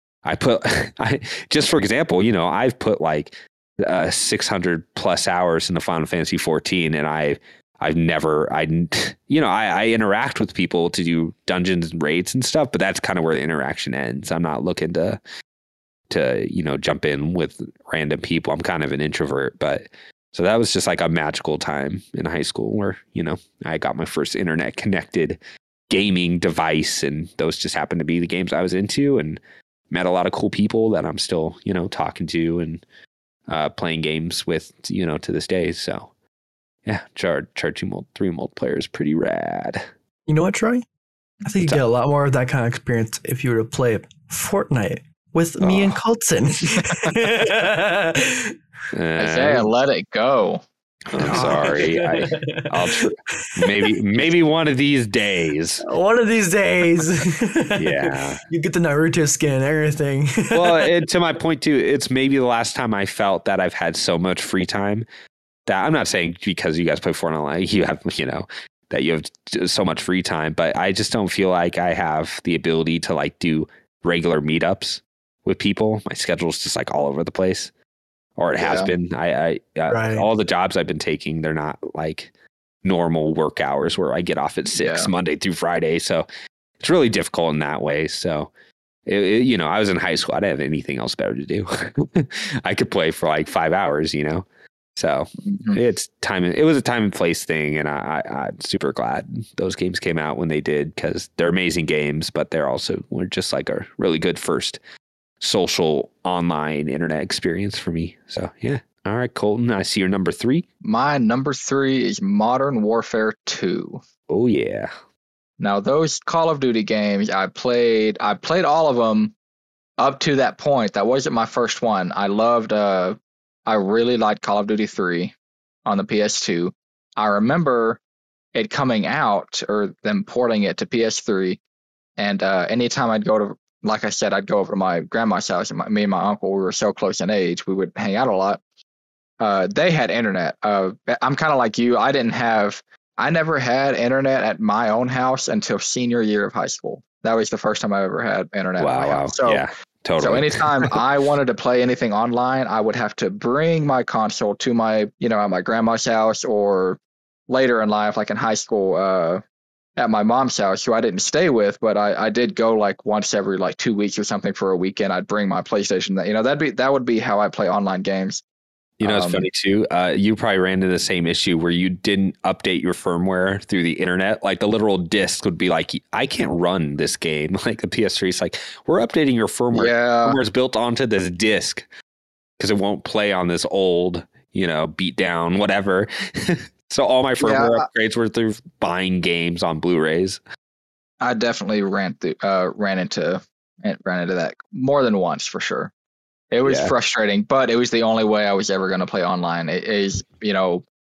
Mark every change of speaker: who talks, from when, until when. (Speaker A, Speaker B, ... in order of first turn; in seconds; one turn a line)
Speaker A: 0.2-15.2
Speaker A: 16.1-29.4
Speaker A: 29.9-32.8
Speaker A: 33.5-36.1
Speaker A: 36.9-39.9
Speaker B: 40.3-40.9
Speaker B: 41.5-48.5
Speaker A: 45.6-46.0
Speaker A: 48.9-49.7
Speaker C: 49.2-50.6
Speaker A: 51.1-55.9
Speaker C: 51.2-51.8
Speaker B: 51.3-53.9
Speaker B: 55.8-60.9
Speaker A: 57.8-58.4
Speaker A: 60.5-65.0
Speaker A: 65.7-77.7
Speaker A: 78.4-82.3
Speaker C: 78.6-78.9
Speaker B: 79.9-80.3
Speaker A: 82.8-86.3
Speaker C: 84.8-85.1
Speaker A: 86.8-88.5
Speaker A: 89.1-94.5
Speaker A: 95.0-104.8
Speaker C: 95.4-95.8
Speaker A: 105.4-110.7
Speaker C: 110.8-114.0
Speaker A: 114.3-114.9
Speaker C: 115.6-119.4
Speaker C: 120.0-125.3
Speaker C: 125.9-128.0
Speaker C: 128.6-131.6
Speaker C: 132.2-138.6
Speaker C: 139.4-149.6
Speaker A: 148.8-150.9
Speaker C: 150.2-159.4
Speaker C: 160.0-168.4
Speaker A: 169.0-181.9
Speaker C: 169.0-169.5
Speaker C: 179.7-180.4
Speaker A: 182.6-190.4
Speaker C: 187.4-187.9
Speaker C: 191.2-195.9
Speaker C: 196.5-200.8
Speaker A: 196.7-196.9